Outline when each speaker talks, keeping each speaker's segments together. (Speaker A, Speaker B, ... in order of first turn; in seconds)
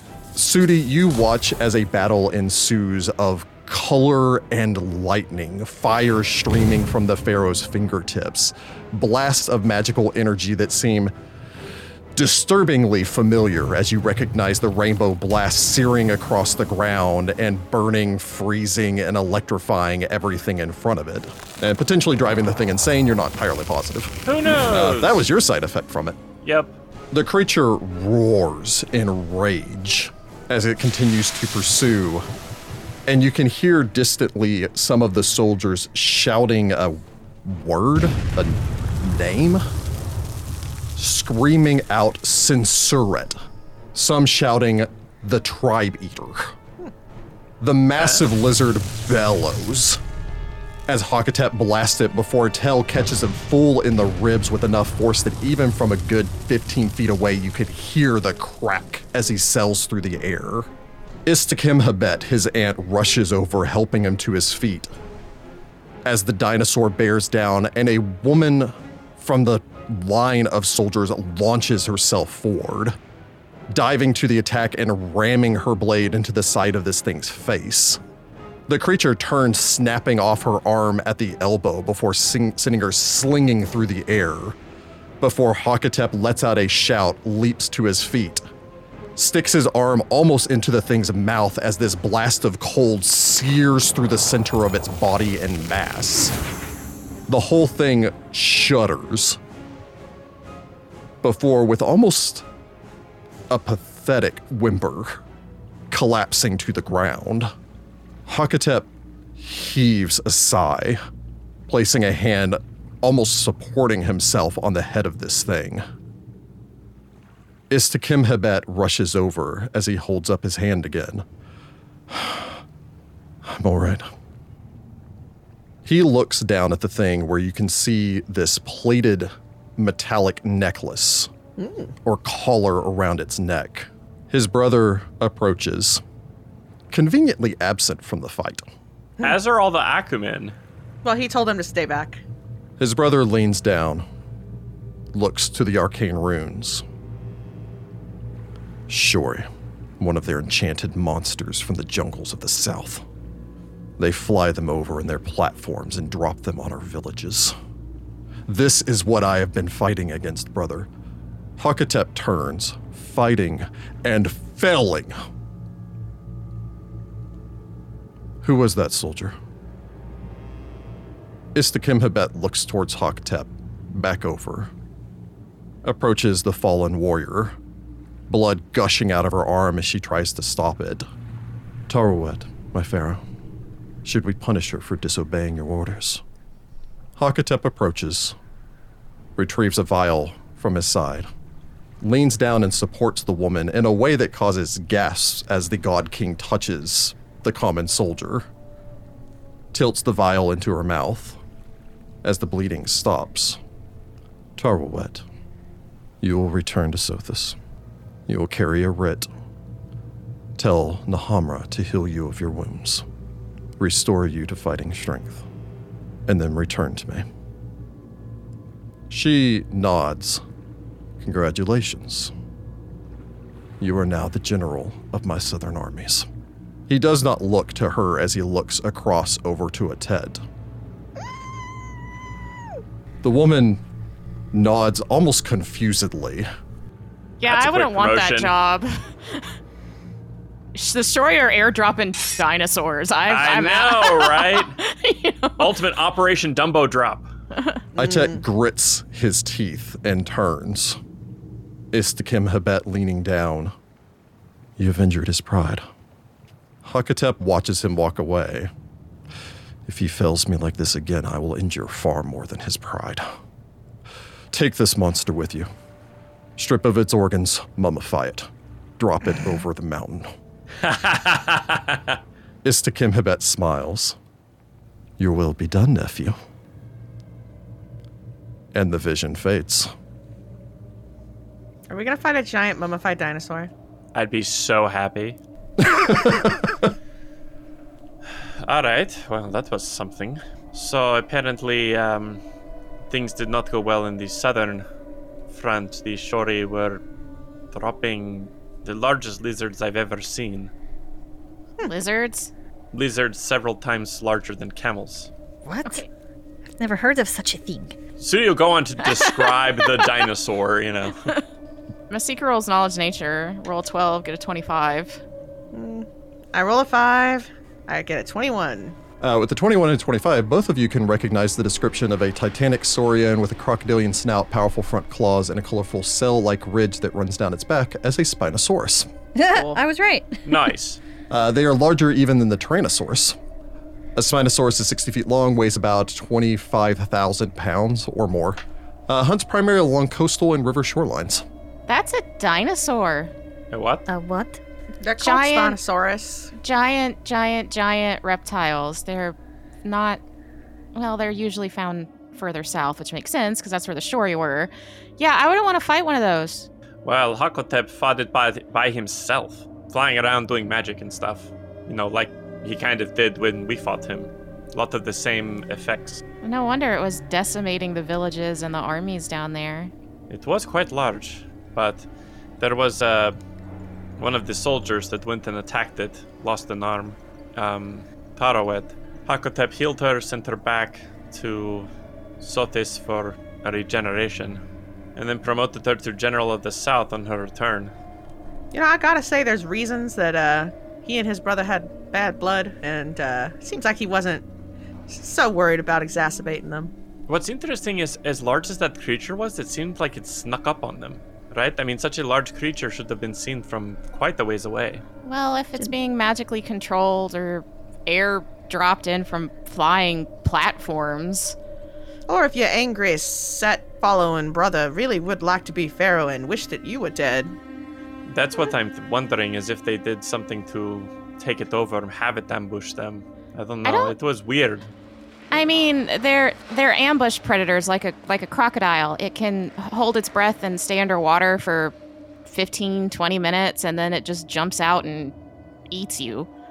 Speaker A: 0.3-11.1, 12.1-26.2, 27.1-32.3, 33.1-39.6, 41.0-43.4, 43.9-46.5, 47.6-50.0, 50.9-60.7, 61.2-64.9, 66.0-73.0, 73.7-78.0, 78.7-84.6, 85.2-88.4, 89.1-96.3, 97.3-99.4, 101.2-102.5, 103.5-105.2, 105.9-107.5, 108.2-111.0, 111.7-115.8, 117.7-121.2, 122.1-122.6, 123.4-124.1, 125.8-131.3, 132.0-136.0, 136.9-138.7, 142.8-144.0, 145.1-146.8, 148.9-149.4, 150.0-153.0, 154.0-157.5, 158.5-160.9, 161.6-165.1, 168.4-169.3, 171.5-174.7, 175.8-177.6, 178.3-181.1, 181.9-183.2, 184.0-186.2, 187.2-188.3, 189.3-191.3, 192.0-198.5, 199.7-201.4, 202.2-203.6, 204.6-205.2, 206.2-207.6, 208.3-209.3, 210.6-213.0, 213.8-215.4, 216.3-217.2, 219.1-220.4, 221.2-222.3, 223.8-226.3, 226.9-230.4, 233.2-233.8, 234.5-236.5, 247.9-251.0, 251.9-253.7, 254.8-255.8, 256.8-258.7, 259.9-263.3, 264.5-265.7, 266.6-270.3, 272.6-274.1, 275.2-276.4, 278.7-279.9, 285.8-286.7, 319.2-329.1, 331.3-333.4, 334.1-341.4
Speaker B: 24.2-25.2, 26.4-26.7, 139.2-140.5, 237.5-238.5, 243.3-244.7, 245.6-247.3, 270.8-272.2, 284.1-285.4, 288.6-292.4, 293.1-294.8, 295.5-297.0, 297.7-300.7, 302.9-305.3, 308.2-311.2, 330.4-331.0, 343.7-344.0, 357.0-366.2, 370.3-372.1, 372.6-373.4, 374.2-381.9, 382.4-384.6, 385.1-387.9, 397.3-405.0, 418.3-424.9
Speaker C: 131.6-131.9, 141.0-142.2, 247.9-248.4, 281.9-283.7, 315.7-318.9, 329.5-329.8, 345.0-346.5, 388.7-394.4, 395.1-396.9, 412.3-417.6
Speaker D: 237.4-239.5, 240.7-245.8, 247.5-247.8, 301.8-302.5, 309.2-309.5, 312.1-315.2, 341.9-343.3, 345.2-345.8, 346.6-350.2, 350.9-356.7, 366.4-369.9, 405.2-411.6, 423.8-424.1, 425.5-431.9, 432.4-435.3, 435.9-436.5
Speaker E: 305.6-306.1, 306.8-307.9, 329.4-330.6, 344.1-344.6